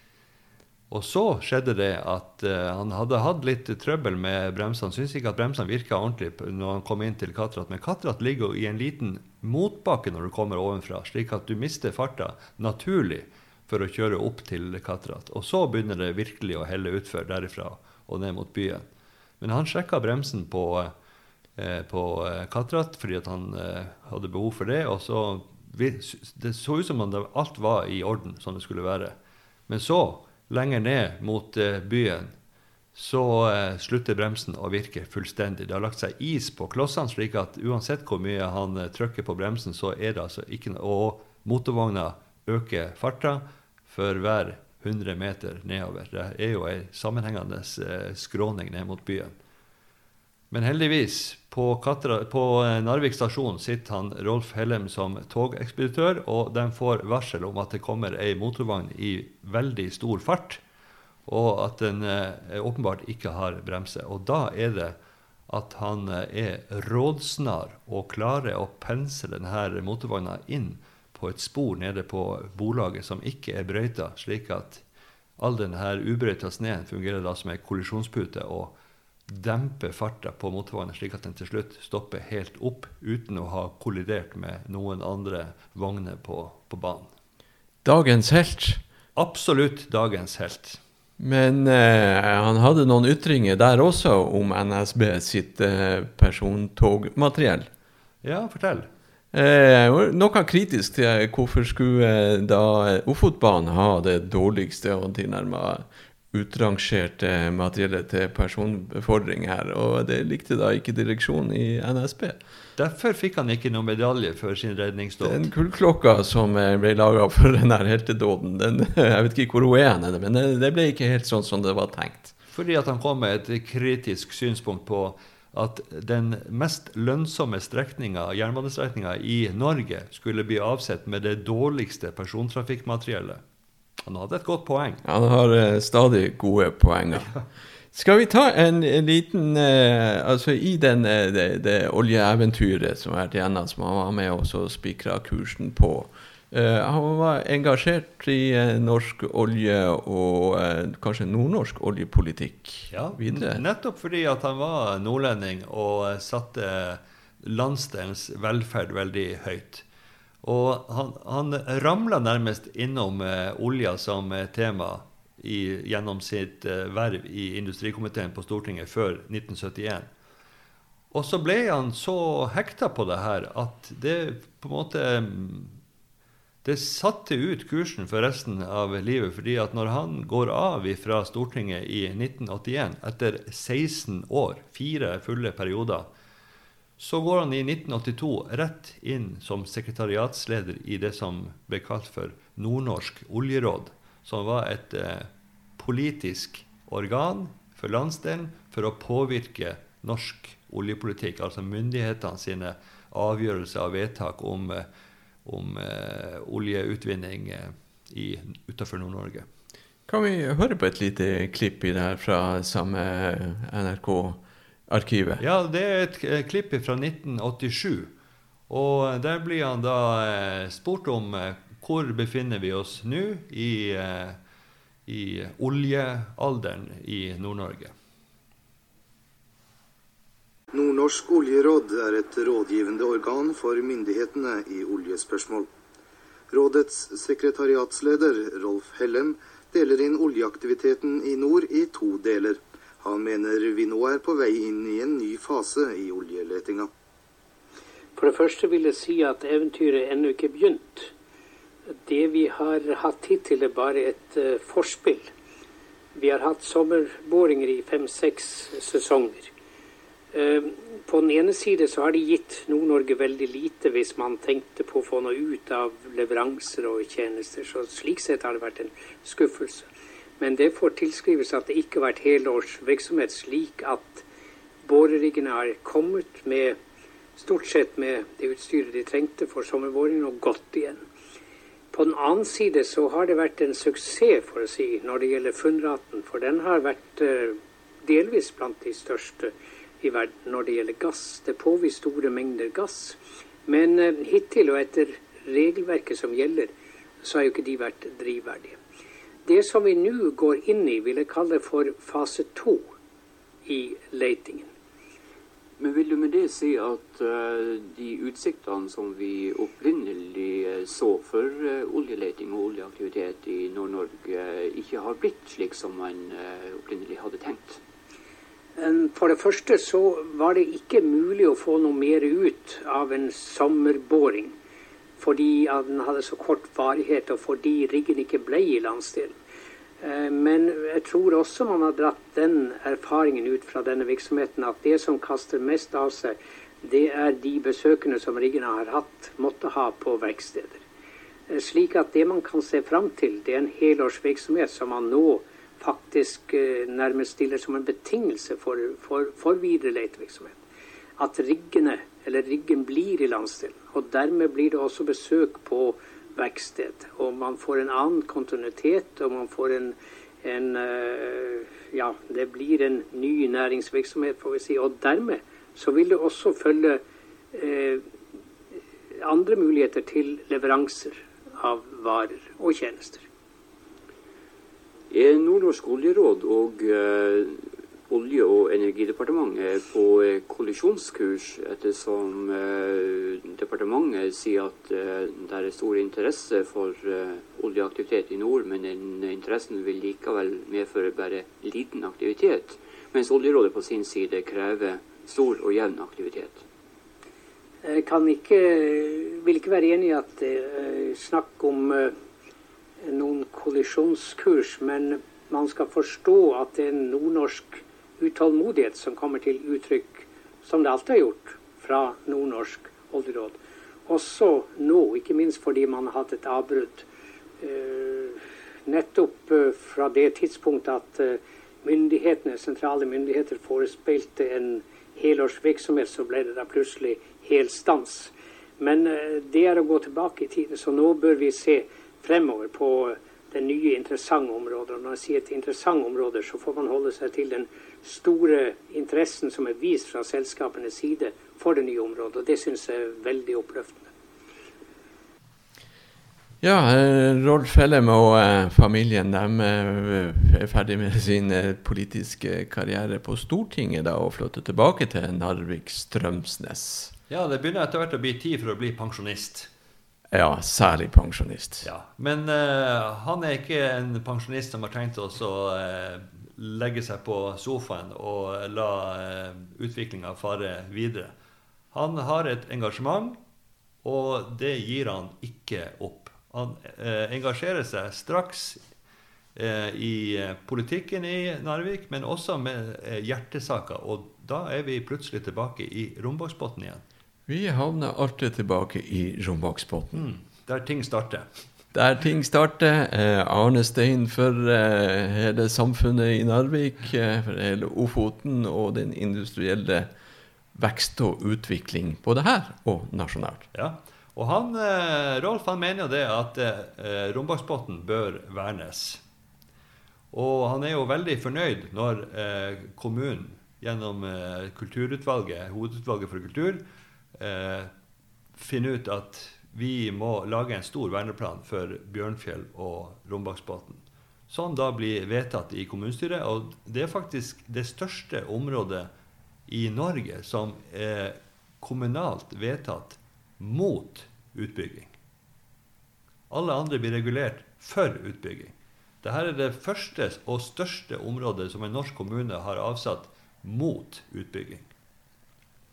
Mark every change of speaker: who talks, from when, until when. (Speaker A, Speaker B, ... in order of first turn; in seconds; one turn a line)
Speaker A: 0.9-18.9
Speaker A: 19.4-20.9
Speaker A: 21.6-29.1
Speaker A: 29.7-32.3
Speaker A: 32.9-49.3
Speaker A: 50.5-60.6
Speaker A: 61.3-65.0
Speaker A: 65.5-74.8
Speaker A: 75.4-78.7
Speaker A: 79.3-87.1
Speaker B: 87.8-88.8
Speaker A: 89.2-90.8
Speaker B: 91.2-97.7
Speaker A: 98.2-98.9
Speaker B: 99.3-112.4
Speaker A: 112.8-115.5
Speaker B: 115.2-122.3
Speaker A: 122.5-133.4
Speaker A: 134.1-135.0
Speaker B: 135.0-137.3
Speaker B: 137.9-153.6
Speaker A: 152.9-159.8
Speaker A: 160.4-170.1
Speaker A: 171.1-175.8
Speaker A: 176.6-186.1
Speaker A: 187.0-204.8
Speaker A: 205.4-209.4
Speaker B: 210.1-215.4
Speaker A: 215.4-218.1
Speaker A: 218.7-224.4
Speaker A: 225.1-227.9
Speaker C: 230.7-235.7
Speaker C: 236.5-246.9
Speaker D: 248.2-251.1
Speaker D: 252.1-255.3
Speaker D: 256.1-259.5
Speaker D: 260.3-269.9
Speaker D: 270.4-274.2
Speaker D: 274.8-276.8
Speaker D: 277.4-281.0
Speaker D: 281.9-296.7
Speaker D: 297.2-298.8
Speaker D: 299.4-302.9
Speaker D: 303.6-304.7
Speaker E: 305.8-317.8
Speaker D: 318.8-324.5
Speaker D: 325.2-329.3
Speaker D: 330.0-340.8
Speaker D: 341.5-350.6
Speaker D: 351.2-367.0
Speaker D: 367.5-368.0
Speaker D: 369.2-373.2
Speaker E: 375.1-396.6
Speaker D: 397.8-402.1
Speaker D: 403.0-417.1
Speaker D: 417.6-444.1
Speaker B: 446.6-457.1
Speaker A: 457.3-459.7
Speaker B: 460.3-461.9
Speaker A: 461.8-471.3
Speaker A: 471.9-473.4
Speaker A: 474.0-478.8
Speaker A: 479.6-487.0
Speaker B: 487.5-490.3
Speaker A: 490.1-491.4
Speaker B: 491.9-500.1
Speaker B: 500.7-503.6
Speaker A: 503.7-509.2
Speaker A: 510.3-516.8
Speaker A: 517.4-517.9
Speaker A: 518.6-529.1
Speaker A: 529.7-535.1
Speaker A: 536.5-544.9